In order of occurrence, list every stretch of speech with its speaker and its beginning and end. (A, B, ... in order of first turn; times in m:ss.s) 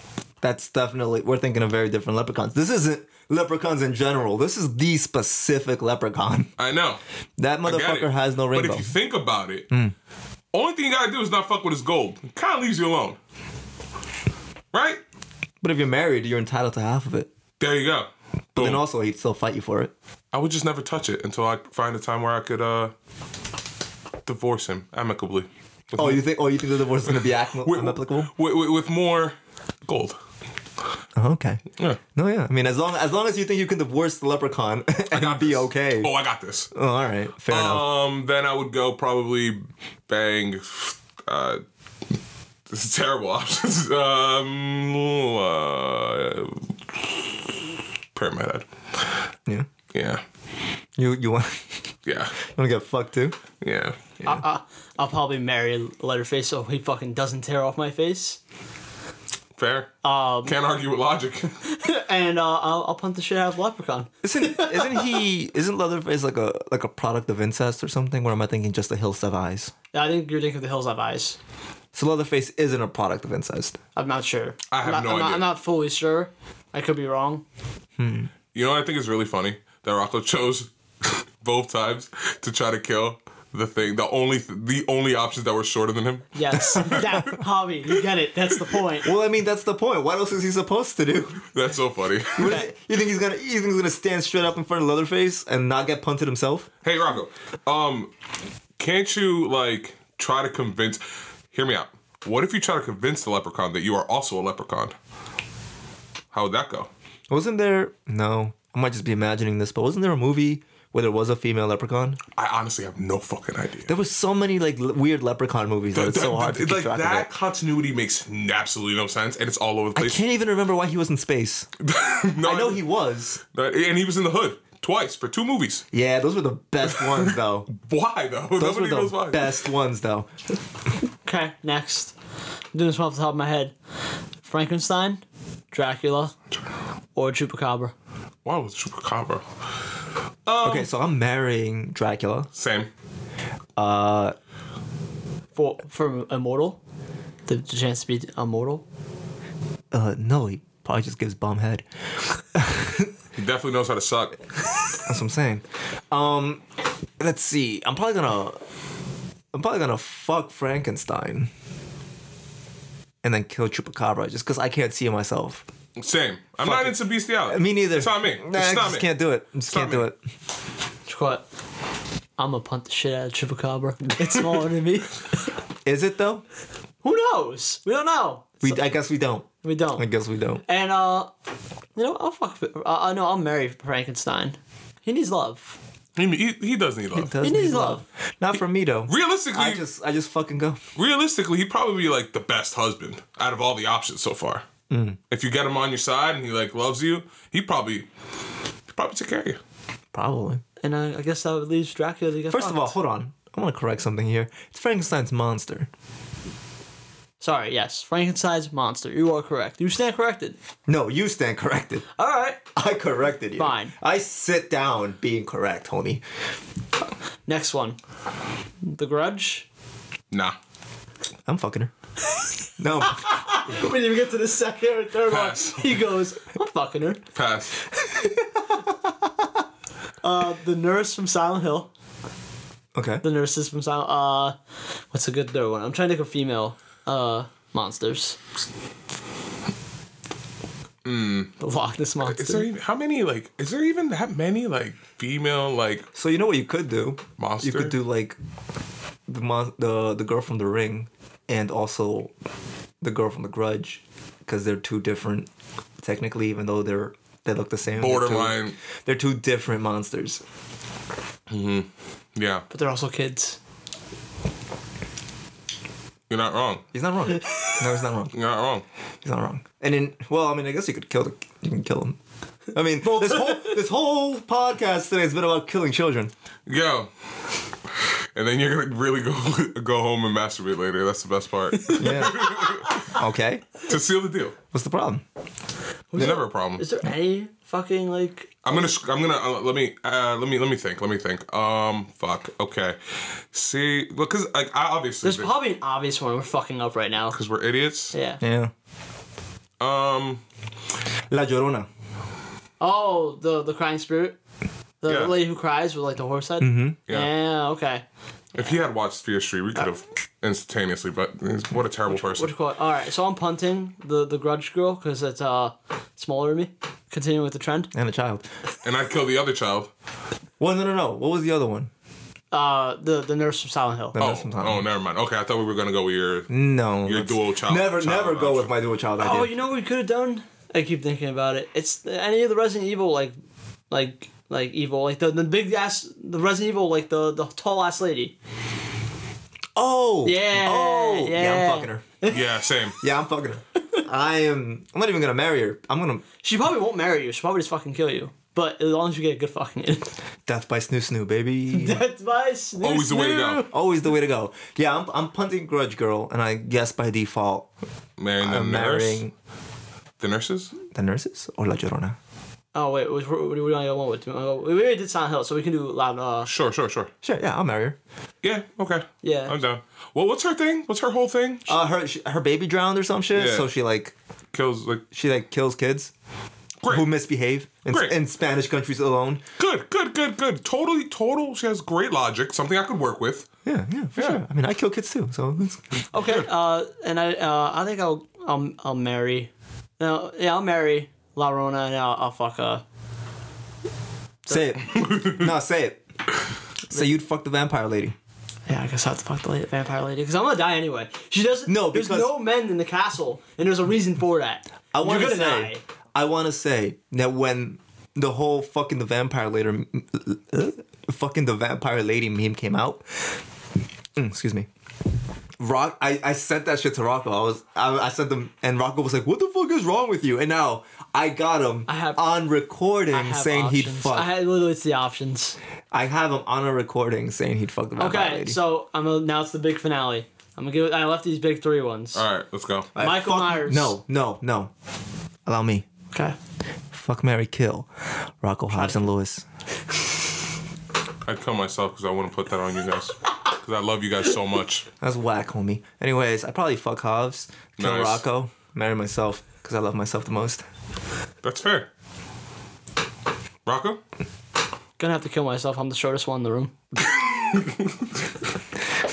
0:00.4-0:06.5 A
0:06.6-0:07.0 B
0:07.4-0:08.9 A
0:07.6-0:09.7 B
0:10.5-0:13.2 B
0:14.7-0:15.0 B
0:15.6-0:17.3 A
0:17.6-0:18.8 B
0:18.6-0:19.9 A
0:20.3-0:22.9 B
0:24.3-0:26.2 B
0:26.0-0:28.3 A
0:27.6-0:29.4 B
0:29.9-0:30.2 B
0:31.2-0:31.6 A
0:32.2-0:36.1 A
0:35.1-0:36.7 B
0:36.7-0:37.8 A
0:37.5-0:41.6 B
0:42.7-0:47.4 B
0:48.1-0:49.2 B
0:49.9-0:50.2 B
0:51.0-0:51.8 A
0:52.1-0:52.4 B
0:52.4-0:53.4 A
0:53.6-0:54.0 B
0:54.2-0:58.4 C
0:59.6-1:01.6 B
1:00.0-1:00.6 C
1:01.6-1:05.1 C
1:04.2-1:09.7 A
1:09.9-1:11.4 C
1:11.9-1:13.8 A
1:14.0-1:17.4 C
1:14.7-1:15.5 B
1:18.0-1:18.3 A
1:18.5-1:27.3 B
1:26.3-1:29.1 C
1:29.0-1:31.5 A
1:31.5-1:32.6 B
1:32.4-1:36.7 A
1:32.4-1:32.7 C
1:36.8-1:38.1 B
1:38.8-1:41.0 B
1:41.5-1:45.0 B
1:46.3-1:46.9 B
1:47.3-1:52.2 A
1:52.4-1:53.9 B
1:53.9-1:57.3 A
1:55.9-2:00.2 B
2:00.0-2:01.7 A
2:01.8-2:02.8 B
2:02.4-2:03.4 A
2:03.5-2:05.9 B
2:05.9-2:07.7 A
2:06.8-2:09.6 B
2:08.6-2:10.3 A
2:11.2-2:12.2 C
2:12.7-2:13.7 C
2:14.4-2:16.3 C
2:17.2-2:17.9 C
2:18.4-2:19.4 B
2:20.5-2:20.9 B
2:20.6-2:22.5 A
2:22.6-2:22.9 B
2:23.8-2:24.4 A
2:25.6-2:26.8 C
2:27.5-2:28.8 C
2:29.9-2:31.8 A
2:32.5-2:33.1 A
2:33.4-2:34.4 B
2:35.1-2:36.6 A
2:37.2-2:38.6 A
2:39.5-2:41.5 A
2:43.2-2:45.6 A
2:46.0-2:49.1 B
2:46.6-2:47.0 A
2:47.5-2:50.2 A
2:49.7-2:50.0 B
2:51.1-2:51.4 C
2:52.4-2:55.4 C
2:55.8-2:56.4 A
2:57.0-2:58.8 C
2:58.6-3:00.6 A
2:59.6-3:00.1 C
3:00.6-3:01.3 C
3:02.0-3:05.8 C
3:06.2-3:07.4 B
3:07.1-3:10.8 A
3:07.4-3:08.0 C
3:09.1-3:09.8 B
3:11.0-3:14.6 B
3:14.9-3:15.2 A
3:15.3-3:18.1 B
3:18.9-3:19.6 B
3:20.1-3:20.6 A
3:20.8-3:23.0 C
3:22.5-3:25.9 A
3:27.4-3:30.6 C
3:30.9-3:32.0 A
3:32.2-3:32.7 C
3:32.8-3:36.2 A
3:33.6-3:34.0 C
3:37.5-3:38.0 C
3:38.8-3:39.7 C
3:41.5-3:41.9 A
3:42.8-3:43.4 A
3:43.2-3:47.2 C
3:45.3-3:46.0 B
3:47.4-3:47.8 B
3:50.2-3:51.9 C
3:52.9-3:53.2 A
3:53.2-3:54.6 C
3:55.1-3:58.4 C
4:01.0-4:01.6 B
4:01.6-4:02.7 C
4:02.2-4:06.1 B
4:06.1-4:08.4 A
4:07.4-4:08.0 B
4:09.3-4:12.3 A
4:13.0-4:15.5 A
4:16.0-4:20.4 A
4:18.0-4:18.8 B
4:21.5-4:22.7 B
4:22.7-4:23.6 C
4:26.3-4:26.8 B
4:26.9-4:28.3 A
4:28.3-4:28.8 B
4:29.2-4:32.2 A
4:32.7-4:36.3 A
4:33.0-4:33.8 C
4:36.7-4:37.1 B
4:38.4-4:43.0 B
4:41.8-4:43.0 C
4:42.0-4:43.8 A
4:43.9-4:44.6 B
4:44.7-4:45.2 A
4:46.1-4:48.7 C
4:46.2-4:46.8 B
4:48.6-4:53.0 B
4:53.5-4:55.5 B
4:55.2-4:57.4 C
4:57.3-4:58.2 B
4:58.1-4:58.4 C
4:58.4-4:58.7 A
4:59.8-5:00.4 B
5:01.3-5:01.9 A
5:02.8-5:04.4 C
5:05.0-5:08.0 C
5:05.1-5:05.3 B
5:06.6-5:07.0 A
5:08.6-5:12.5 B
5:12.1-5:17.9 C
5:17.9-5:18.5 A
5:18.8-5:19.9 B
5:20.6-5:21.9 A
5:22.5-5:24.2 C
5:24.1-5:24.8 A
5:24.2-5:26.5 B
5:26.5-5:29.5 A
5:27.0-5:28.7 B
5:29.2-5:33.3 C
5:33.9-5:38.4 C
5:39.8-5:42.0 A
5:40.2-5:42.4 C
5:42.3-5:43.0 B
5:43.0-5:46.2 A
5:46.4-5:50.1 C
5:50.5-5:52.0 A
5:51.7-5:53.7 C
5:52.8-5:53.6 B
5:53.7-5:57.7 A
5:58.2-5:59.2 B
5:58.4-5:59.3 A
6:00.2-6:00.7 B
6:00.8-6:02.2 A
6:02.7-6:06.5 C
6:06.4-6:07.1 B
6:07.2-6:08.0 A
6:08.4-6:11.7 B
6:09.2-6:09.6 C
6:11.7-6:14.1 A
6:13.3-6:13.7 B
6:14.5-6:15.0 B
6:15.1-6:16.1 A
6:16.8-6:17.1 B
6:16.9-6:19.4 A
6:17.9-6:18.1 B
6:19.6-6:23.5 B
6:23.7-6:25.8 A
6:24.2-6:24.4 B
6:26.1-6:32.8 C
6:34.5-6:36.0 A
6:34.9-6:35.5 B
6:36.9-6:38.2 A
6:38.7-6:45.8 C
6:41.7-6:42.3 A
6:44.9-6:53.4 A
6:54.2-6:54.7 A
6:55.6-7:04.3 A
7:01.9-7:02.2 C
7:03.1-7:05.6 C
7:05.9-7:08.6 A
7:08.0-7:12.2 C
7:12.1-7:12.9 B
7:13.0-7:14.7 A
7:13.0-7:14.0 C
7:15.5-7:15.9 A
7:16.9-7:17.9 A
7:18.4-7:19.4 A
7:18.7-7:19.0 C
7:21.2-7:24.9 B
7:25.0-7:30.6 A
7:27.8-7:28.2 B
7:31.4-7:31.9 B
7:33.7-7:34.0 B
7:35.0-7:36.7 C
7:37.0-7:38.1 B